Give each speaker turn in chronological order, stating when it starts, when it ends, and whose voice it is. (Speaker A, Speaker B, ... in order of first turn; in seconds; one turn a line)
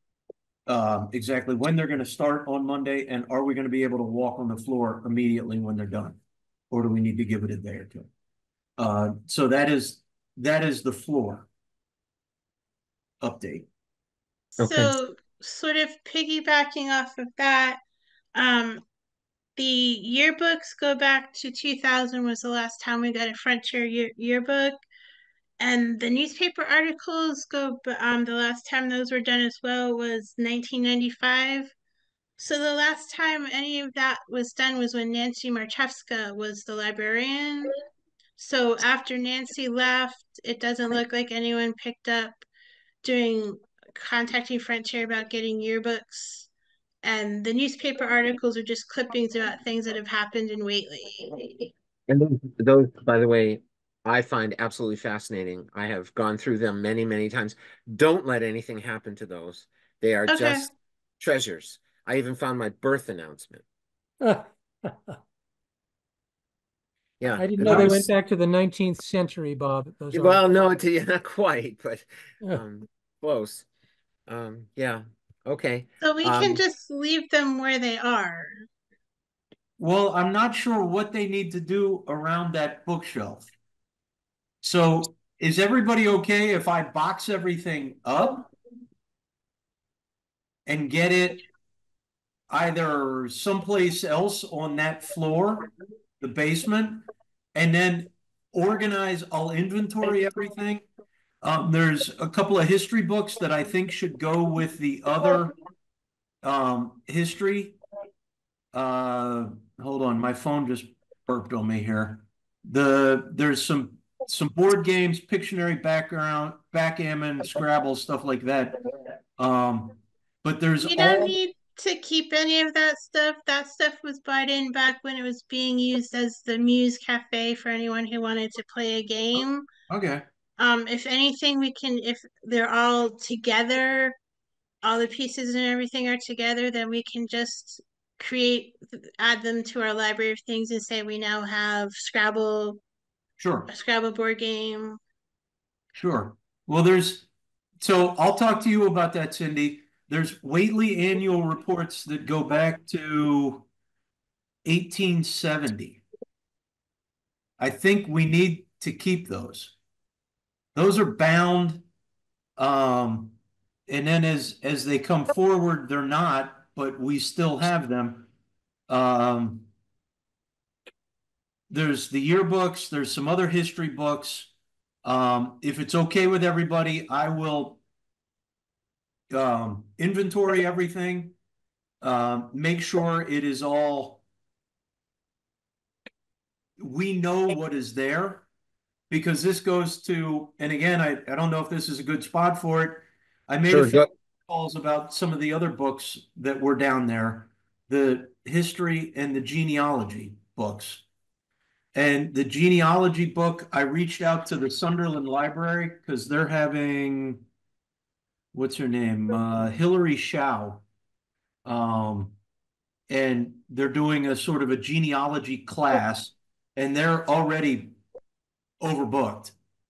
Speaker A: 0.7-6.2
Speaker A: 6.7-8.1
Speaker A: 8.8-11.5
Speaker A: 13.2-13.7
Speaker B: 14.6-17.8
Speaker C: 14.6-14.9
Speaker B: 18.3-18.8
Speaker B: 19.6-24.8
Speaker B: 25.6-31.7
Speaker B: 32.4-37.7
Speaker B: 38.4-42.4
Speaker B: 43.0-46.5
Speaker B: 47.0-51.7
Speaker C: 52.1-63.6
Speaker B: 60.3-60.6
Speaker D: 64.2-65.2
Speaker C: 67.2-68.1
Speaker D: 67.4-70.4
Speaker C: 70.1-73.7
Speaker C: 74.3-76.6
Speaker B: 76.0-78.6
Speaker A: 79.8-83.5
Speaker A: 84.6-88.5
Speaker A: 90.7-91.4
Speaker A: 92.5-100.8
Speaker A: 101.4-105.5
Speaker A: 106.4-107.8
Speaker A: 108.7-118.8
Speaker A: 119.4-121.3
Speaker B: 120.8-129.6
Speaker A: 129.9-130.2
Speaker B: 130.6-134.2
Speaker B: 134.8-142.8
Speaker A: 143.4-143.7
Speaker B: 143.7-145.0
Speaker A: 145.9-147.3
Speaker A: 147.8-153.7
Speaker A: 154.6-156.0
Speaker A: 157.6-159.7
Speaker A: 160.7-161.8
Speaker A: 162.6-163.3
Speaker A: 163.9-168.3
Speaker A: 168.9-169.7
Speaker A: 171.7-174.5
Speaker A: 175.0-177.8
Speaker A: 179.3-181.3
Speaker A: 182.0-184.2
Speaker A: 186.8-188.4
Speaker A: 189.1-201.0
Speaker C: 193.7-194.1
Speaker A: 201.9-207.4
Speaker A: 208.5-210.8
Speaker A: 211.6-212.3
Speaker A: 213.1-218.0
Speaker A: 218.8-219.5